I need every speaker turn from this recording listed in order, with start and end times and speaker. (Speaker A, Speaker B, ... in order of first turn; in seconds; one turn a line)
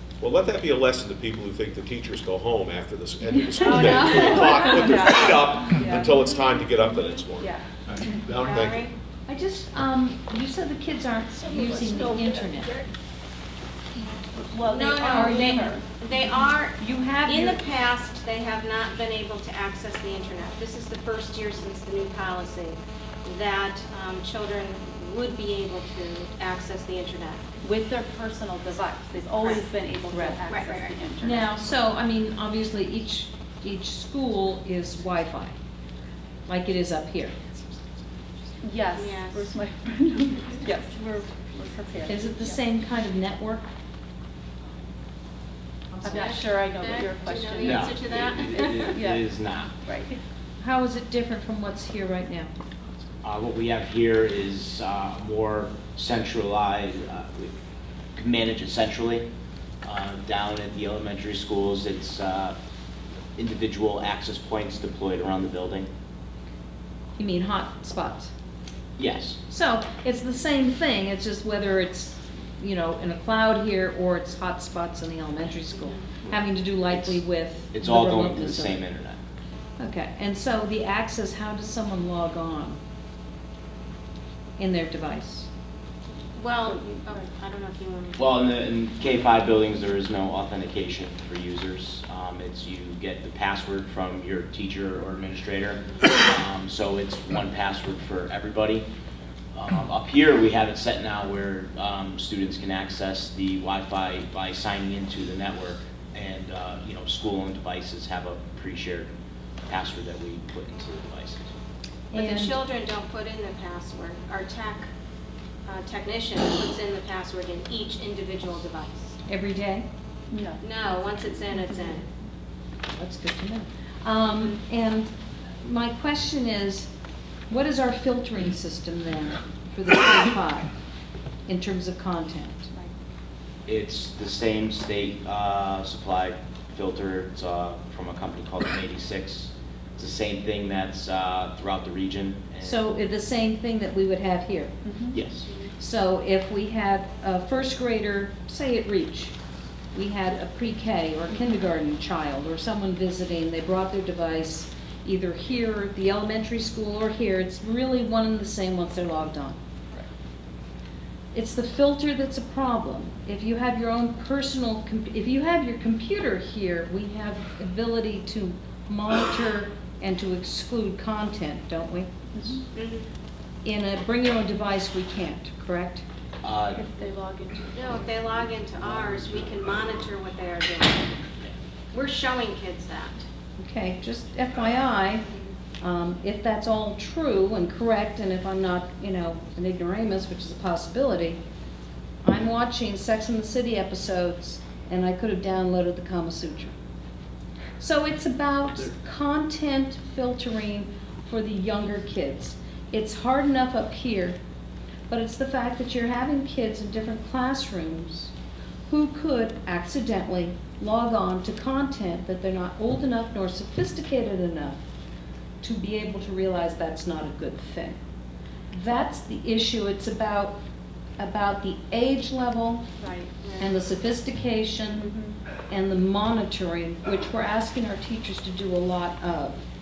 Speaker A: 0.2-8.9
Speaker B: 3.4-8.1
Speaker C: 3.6-4.9
Speaker D: 3.6-4.3
Speaker D: 8.4-8.9
Speaker C: 9.3-12.8
Speaker B: 14.5-15.9
Speaker D: 14.7-27.4
Speaker C: 15.1-15.7
Speaker C: 16.7-17.6
Speaker B: 27.6-31.5
Speaker D: 29.4-29.6
Speaker C: 30.1-30.4
Speaker D: 30.4-30.9
Speaker C: 31.2-35.5
Speaker C: 36.5-37.4
Speaker B: 38.6-42.6
Speaker D: 38.9-39.4
Speaker C: 42.1-43.7
Speaker D: 46.0-48.8
Speaker B: 46.0-47.9
Speaker E: 47.6-49.7
Speaker B: 48.8-49.2
Speaker B: 49.8-50.2
Speaker C: 50.6-52.5
Speaker E: 53.2-57.5
Speaker E: 58.1-59.2
Speaker E: 59.8-62.6
Speaker E: 63.4-65.9
Speaker C: 67.2-68.3
Speaker E: 69.0-69.4
Speaker C: 69.5-78.8
Speaker E: 76.3-77.2
Speaker E: 77.7-79.2
Speaker C: 79.8-82.8
Speaker C: 84.6-85.5
Speaker D: 86.3-88.2
Speaker B: 86.6-87.3
Speaker E: 88.2-98.8
Speaker E: 99.5-109.1
Speaker E: 109.7-111.5
Speaker C: 112.1-112.6
Speaker D: 112.1-114.9
Speaker D: 115.7-119.2
Speaker C: 119.3-119.8
Speaker B: 120.3-120.6
Speaker D: 120.6-122.0
Speaker B: 121.5-122.0
Speaker C: 122.9-125.1
Speaker C: 125.6-126.9
Speaker C: 127.5-130.7
Speaker C: 131.5-132.7
Speaker E: 133.7-142.8
Speaker C: 142.6-144.7
Speaker B: 144.8-145.2
Speaker E: 145.1-145.5
Speaker D: 145.4-145.7
Speaker C: 145.8-149.3
Speaker C: 149.9-159.6
Speaker C: 161.3-172.1
Speaker B: 172.3-172.6
Speaker D: 172.7-173.1
Speaker C: 173.6-176.0
Speaker E: 176.4-176.8
Speaker B: 176.7-178.4
Speaker D: 177.7-181.2
Speaker D: 181.9-183.2
Speaker C: 183.6-185.2
Speaker C: 185.8-191.4
Speaker C: 192.2-196.7
Speaker C: 197.8-204.4
Speaker C: 205.1-208.3
Speaker C: 208.9-214.8
Speaker C: 215.6-218.0
Speaker C: 218.7-220.6
Speaker C: 221.2-222.9
Speaker B: 223.0-223.7
Speaker D: 223.4-223.7
Speaker C: 223.6-225.1
Speaker B: 224.9-225.3
Speaker C: 225.7-229.6